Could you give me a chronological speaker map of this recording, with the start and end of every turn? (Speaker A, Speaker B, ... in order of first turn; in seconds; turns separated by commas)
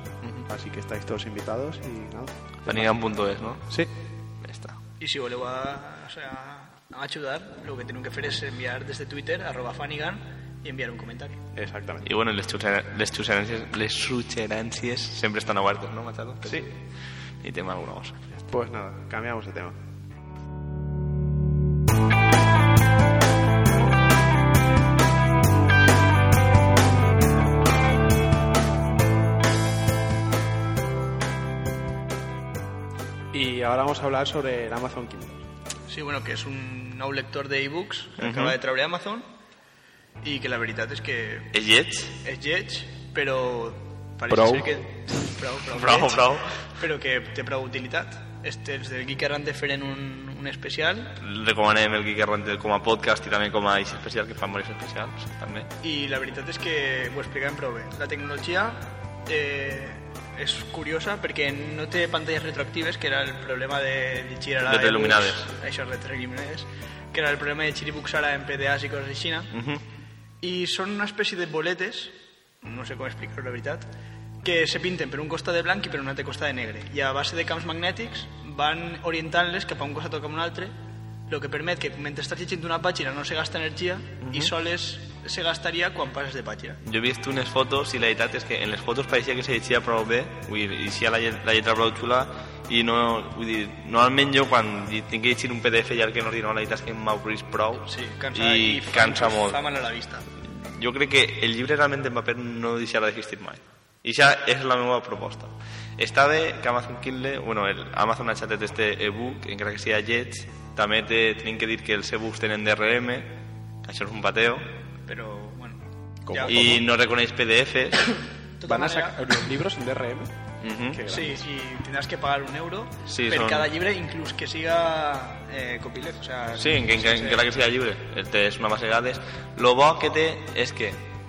Speaker A: 0.5-3.1, Speaker B: 2.7-3.7, Speaker A: 3.7-3.9, Speaker B: 4.4-4.8, Speaker C: 5.0-11.4, Speaker A: 11.6-12.1, Speaker B: 12.0-16.8, Speaker B: 17.4-18.4, Speaker A: 18.5-19.8, Speaker A: 33.3-35.4, Speaker C: 35.9-39.2, Speaker B: 38.2-38.6, Speaker C: 40.2-41.6, Speaker B: 41.5-42.1, Speaker C: 42.2-51.2, Speaker A: 44.3-44.9, Speaker B: 45.7-46.5, Speaker B: 51.2-55.7, Speaker C: 55.8-69.5, Speaker B: 64.6-65.5, Speaker B: 69.5-69.8, Speaker C: 70.4-73.9, Speaker C: 74.4-80.7, Speaker C: 81.3-86.8, Speaker B: 84.2-84.5, Speaker B: 86.8-99.6, Speaker C: 97.9-100.3, Speaker B: 100.4-113.3, Speaker B: 113.8-114.7, Speaker C: 115.1-116.8, Speaker A: 116.3-116.8, Speaker B: 116.5-118.1, Speaker C: 118.2-119.4, Speaker A: 118.7-120.3, Speaker B: 120.6-121.0, Speaker A: 120.9-121.4, Speaker C: 121.1-127.5, Speaker B: 123.1-123.7, Speaker B: 126.6-131.1